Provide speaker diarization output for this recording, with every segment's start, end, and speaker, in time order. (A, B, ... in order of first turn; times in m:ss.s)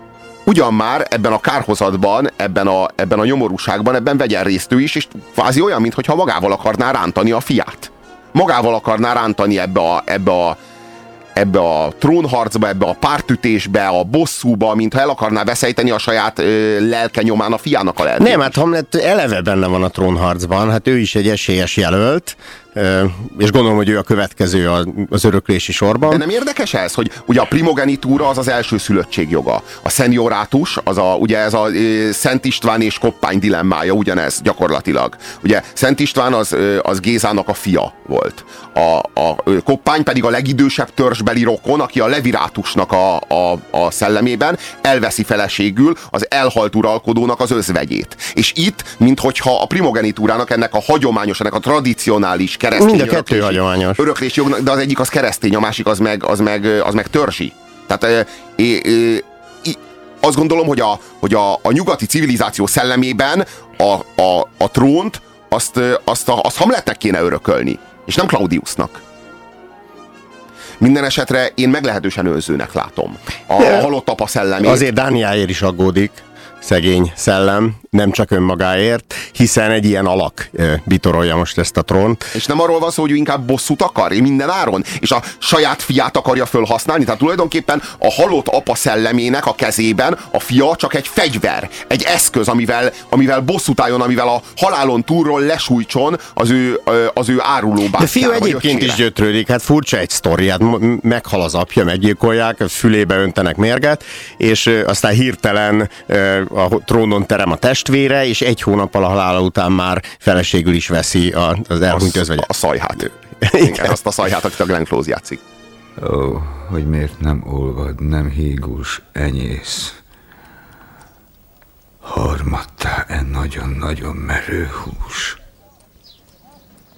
0:00.5-0:10.6 A
0:11.4-0:18.5 A
0:18.2-0:26.2 B
0:26.1-1:09.0 A
0:52.7-0:54.0 B
1:10.8-1:14.8 A
1:13.6-1:13.9 B
1:14.6-1:22.3 B
1:22.3-1:39.0 A
1:38.0-1:52.5 B
1:51.9-1:55.4 A
1:53.4-1:53.9 B
1:56.0-2:00.0 C
2:02.0-2:05.4 C